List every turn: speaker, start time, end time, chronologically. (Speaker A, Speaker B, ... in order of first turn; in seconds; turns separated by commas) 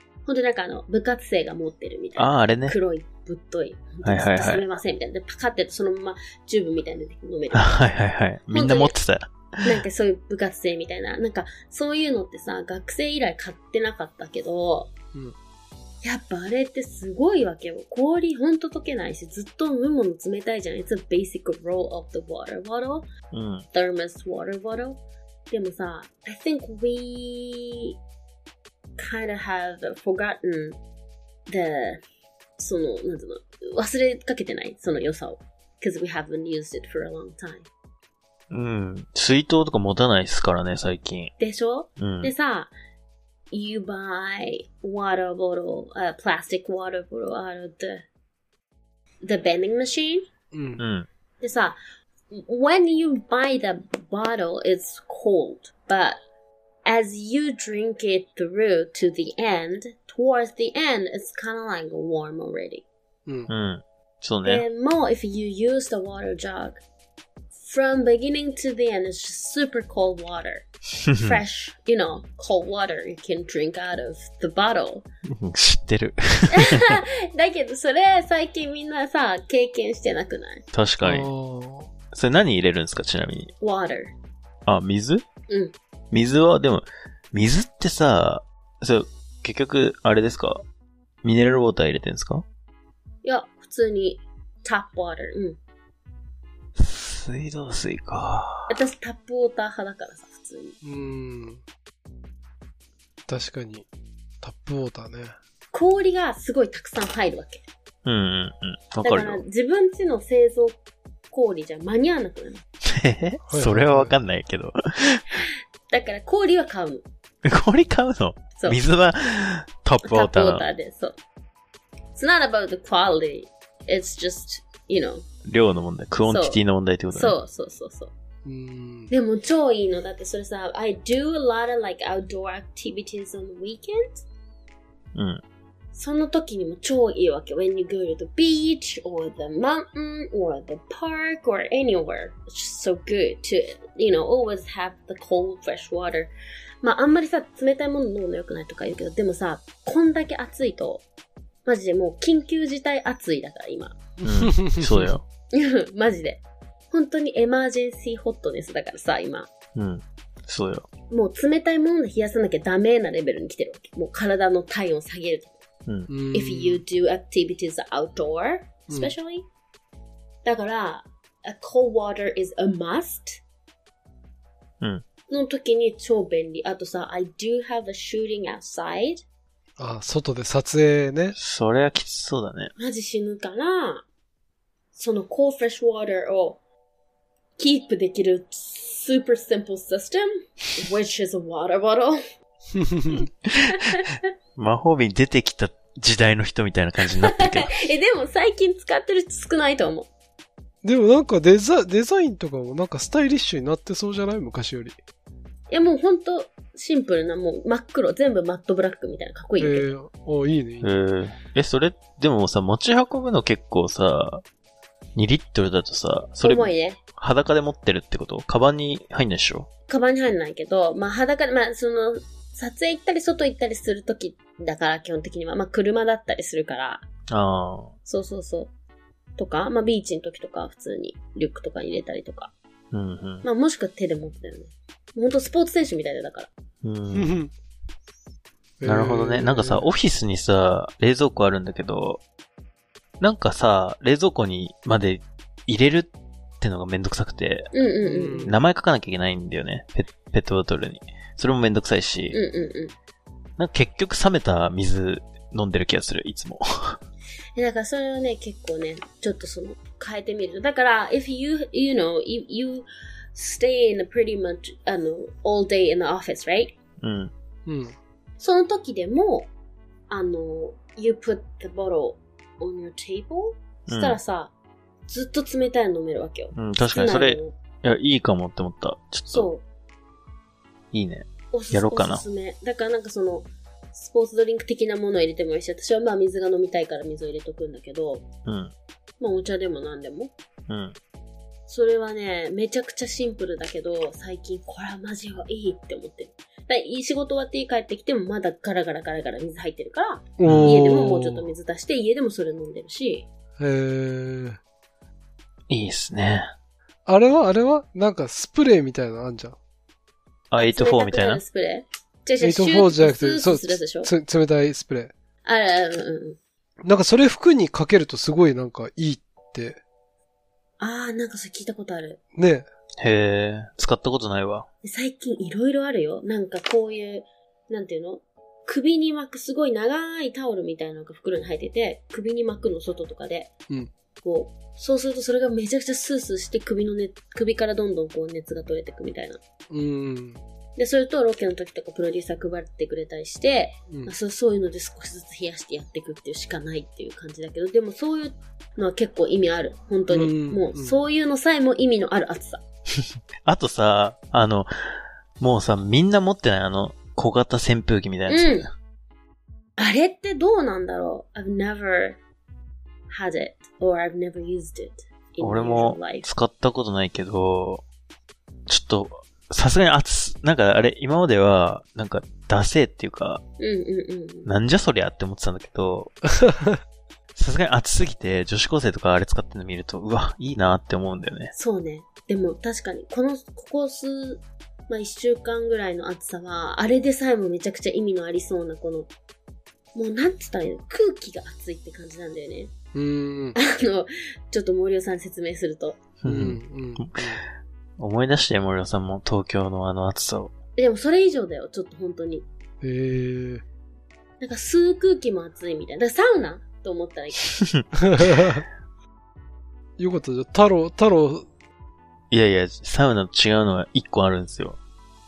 Speaker A: 0.2-7.8, Speaker B: 2.1-2.8, Speaker B: 4.0-4.6, Speaker B: 7.5-9.8, Speaker A: 8.5-8.9, Speaker A: 9.6-14.9, Speaker A: 16.0-23.1, Speaker B: 23.3-23.6, Speaker A: 23.7-27.9, Speaker A: 29.0-30.8, Speaker A: 31.5-32.0, Speaker A: 32.6-37.7, Speaker B: 38.5-41.3, Speaker A: 41.4-42.7, Speaker B: 42.0-42.3, Speaker A: 43.5-48.0, Speaker A: 49.2-50.2, Speaker C: 50.5-50.8, Speaker B: 50.8-51.1, Speaker A: 51.4-51.8, Speaker A: 52.3-56.2, Speaker A: 56.9-62.8, Speaker B: 63.5-64.6, Speaker A: 64.4-66.8, Speaker A: 67.5-75.0, Speaker B: 71.1-71.4, Speaker B: 75.3-77.0, Speaker A: 76.5-80.6, Speaker B: 80.7-81.3, Speaker C: 81.0-81.9, Speaker B: 82.1-83.5, Speaker A: 83.6-84.1, Speaker B: 84.7-85.2, Speaker A: 85.5-85.7, Speaker B: 86.1-90.6, Speaker B: 91.2-92.4, Speaker A: 93.2-95.6, Speaker B: 96.8-98.8, Speaker A: 98.7-100.8, Speaker C: 100.8-101.6, Speaker C: 103.3-103.9, Speaker C: 104.4-105.3, Speaker A: 105.7-107.6, Speaker B: 108.0-109.4, Speaker A: 109.0-110.8, Speaker A: 111.3-112.6, Speaker B: 112.8-115.4, Speaker C: 113.5-114.1, Speaker A: 115.9-117.0, Speaker B: 117.4-120.6, Speaker A: 120.0-121.1, Speaker A: 122.1-125.2, Speaker B: 125.4-127.3, Speaker A: 126.2-126.6, Speaker A: 127.1-128.1, Speaker C: 128.4-129.1, Speaker A: 129.1-134.2, Speaker B: 135.1-135.4, Speaker A: 135.9-151.0, Speaker A: 151.7-154.0, Speaker B: 154.2-155.2, Speaker C: 154.2-155.1, Speaker A: 155.5-159.5, Speaker B: 159.7-160.8, Speaker A: 161.1-165.6, Speaker C: 166.1-166.8, Speaker A: 166.3-169.4, Speaker A: 170.4-173.4, Speaker A: 175.3-179.2, Speaker C: 179.8-181.3, Speaker B: 181.4-182.7, Speaker A: 182.8-184.0, Speaker A: 184.9-186.6, Speaker A: 187.6-192.2, Speaker C: 192.7-193.3, Speaker B: 193.4-194.0, Speaker A: 193.7-194.2, Speaker B: 194.6-197.7, Speaker A: 197.2-200.1, Speaker C: 200.8-205.0, Speaker A: 205.7-209.9, Speaker C: 209.6-210.9, Speaker B: 210.8-214.4, Speaker B: 215.2-219.7, Speaker A: 216.4-217.0, Speaker A: 219.9-227.0, Speaker B: 227.3-227.9, Speaker A: 228.1-228.7, Speaker A: 229.4-232.5, Speaker B: 232.9-233.4, Speaker A: 233.4-236.5, Speaker B: 236.8-237.3, Speaker C: 237.1-237.5, Speaker C: 238.8-239.8, Speaker B: 238.8-242.2, Speaker B: 243.2-247.8, Speaker A: 247.7-248.5, Speaker C: 248.0-248.6, Speaker B: 248.4-252.4, Speaker A: 252.3-252.9, Speaker B: 253.6-257.0, Speaker A: 257.6-266.8, Speaker B: 267.0-267.3, Speaker C: 267.6-267.9, Speaker A: 268.4-269.5, Speaker A: 270.1-274.5, Speaker B: 273.9-274.2, Speaker A: 275.1-277.6, Speaker B: 276.5-279.5, Speaker A: 279.3-279.6, Speaker B: 280.9-282.2, Speaker A: 281.5-288.2, Speaker B: 288.4-288.7, Speaker A: 289.2-290.3, Speaker B: 290.7-290.9, Speaker A: 291.7-303.3, Speaker C: 300.4-301.5, Speaker B: 300.4-300.8, Speaker C: 303.6-304.6, Speaker B: 305.7-306.5, Speaker C: 307.1-309.6, Speaker B: 310.5-311.4, Speaker A: 310.6-314.1, Speaker C: 312.4-315.1, Speaker A: 315.4-316.4, Speaker C: 316.8-319.8, Speaker A: 320.8-322.2, Speaker C: 322.3-322.7, Speaker B: 323.0-324.7, Speaker A: 324.8-333.5, Speaker A: 334.2-339.4, Speaker C: 339.7-340.4, Speaker A: 340.8-352.6, Speaker C: 350.1-351.0, Speaker B: 353.0-358.7, Speaker A: 358.3-358.7, Speaker A: 359.8-362.2, Speaker A: 363.1-366.2, Speaker B: 365.4-367.8, Speaker B: 368.7-373.4, Speaker A: 373.6-374.5, Speaker B: 374.4-376.1, Speaker C: 376.4-376.8, Speaker B: 377.3-381.5, Speaker A: 381.5-389.1, Speaker A: 389.9-392.7, Speaker C: 392.9-393.6, Speaker A: 393.6-396.0, Speaker B: 396.2-397.4, Speaker C: 396.2-397.4, Speaker B: 398.0-400.5, Speaker A: 400.8-402.4, Speaker C: 402.8-403.6, Speaker A: 404.4-407.5, Speaker C: 408.0-408.6, Speaker C: 410.0-411.5, Speaker B: 412.3-414.8